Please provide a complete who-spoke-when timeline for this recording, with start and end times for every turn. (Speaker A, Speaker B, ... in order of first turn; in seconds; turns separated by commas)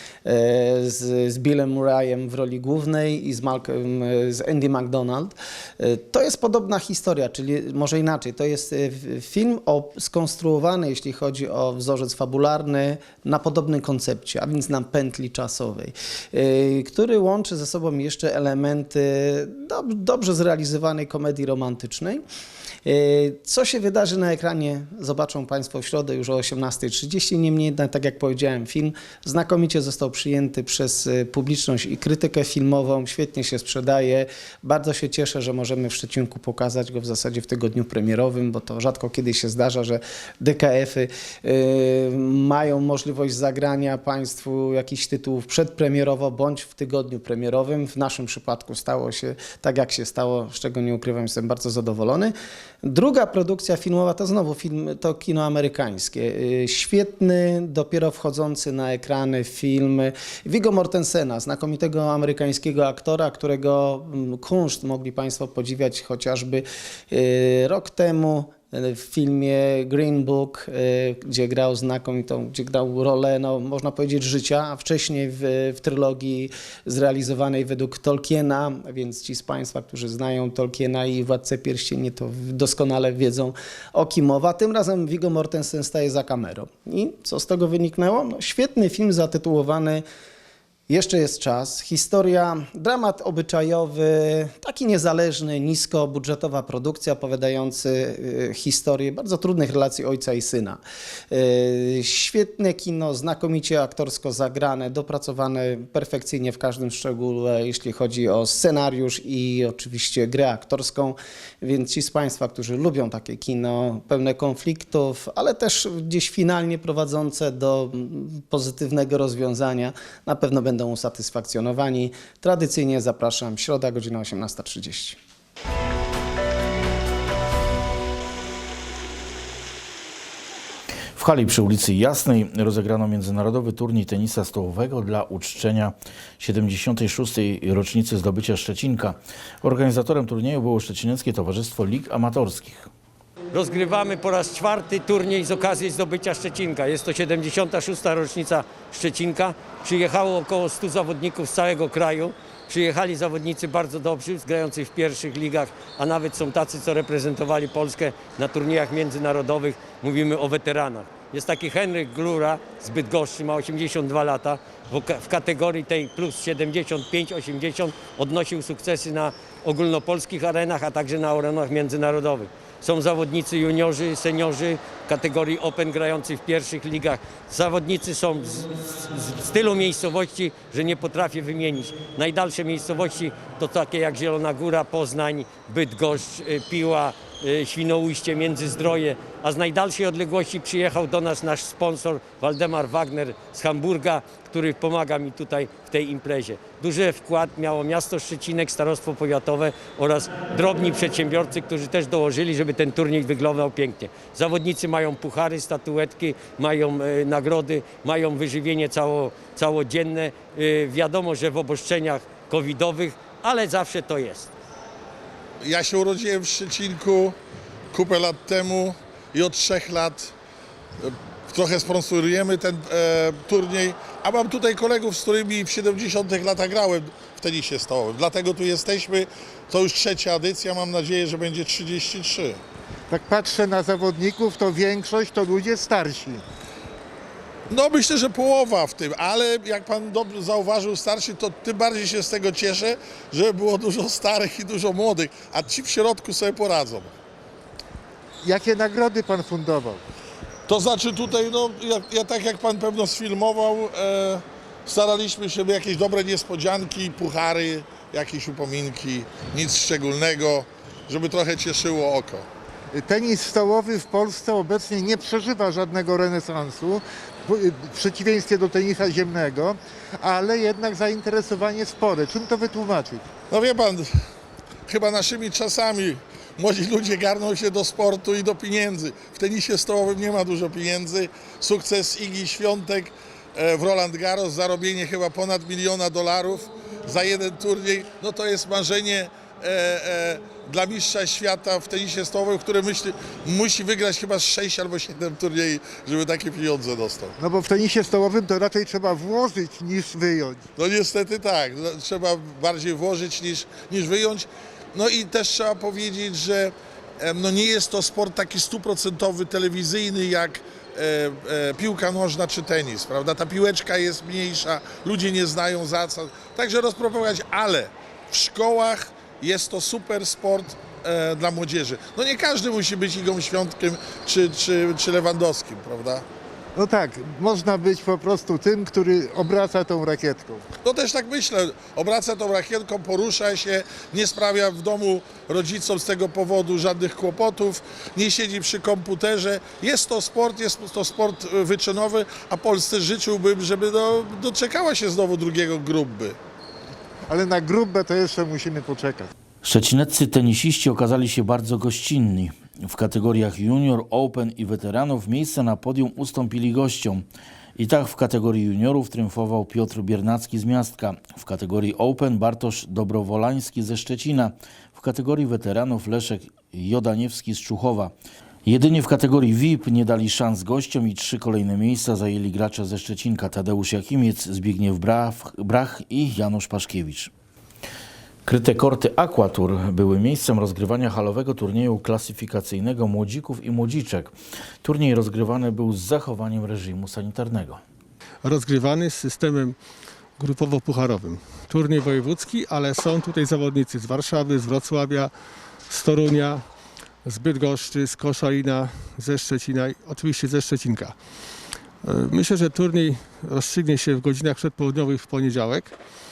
Speaker A: 0.2-22.2, Speaker A: 22.9-90.0, Speaker A: 90.9-125.2, Speaker B: 131.2-142.9, Speaker C: 143.5-214.5, Speaker D: 215.6-217.4, Speaker D: 217.9-220.3, Speaker D: 221.0-232.6, Speaker E: 233.1-236.4, Speaker D: 237.7-247.1, Speaker E: 248.4-250.0, Speaker D: 250.7-262.5, Speaker E: 262.9-273.3, Speaker D: 273.5-274.1, Speaker D: 274.9-297.3, Speaker E: 297.4-300.6, Speaker D: 300.8-326.2, Speaker E: 326.8-330.6, Speaker D: 330.8-346.4, Speaker E: 347.3-349.3, Speaker B: 349.6-357.2, Speaker B: 357.8-368.1, Speaker B: 368.6-377.3, Speaker B: 378.4-387.8, Speaker F: 388.4-389.8, Speaker F: 390.4-395.3, Speaker F: 395.9-396.7, Speaker F: 397.2-406.0